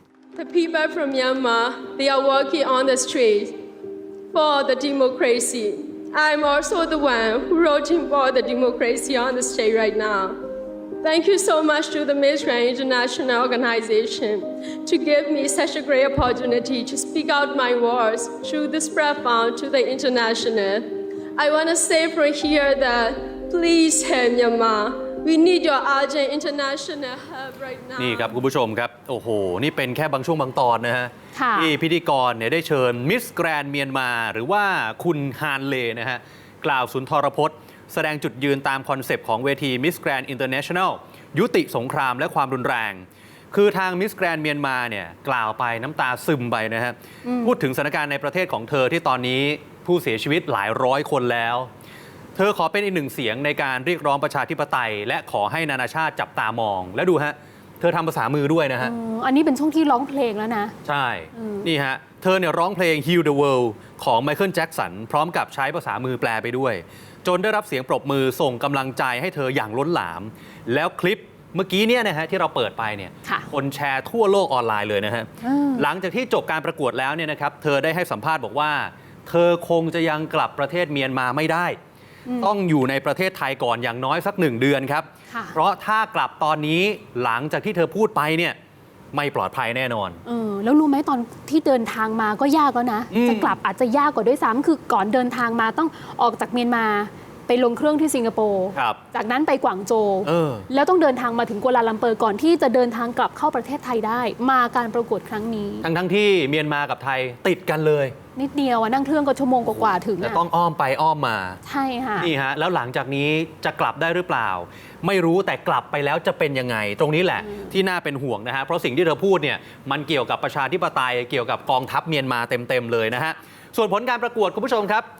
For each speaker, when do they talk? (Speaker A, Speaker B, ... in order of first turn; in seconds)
Speaker A: 0.3-3.5, 4.3-10.4, 11.0-28.4
Speaker B: 28.0-51.7, 52.4-58.9, 60.8-81.8, 82.4-88.6, 89.1-90.2, 93.1-93.5, 98.7-99.0, 100.2-100.7, 105.8-108.2, 110.2-111.6, 112.2-125.0
Speaker C: 31.3-31.7, 47.3-47.5, 58.8-60.7, 61.3-61.7, 75.4-75.8, 85.3-85.6, 90.2-105.9, 108.3-110.4, 111.6-112.3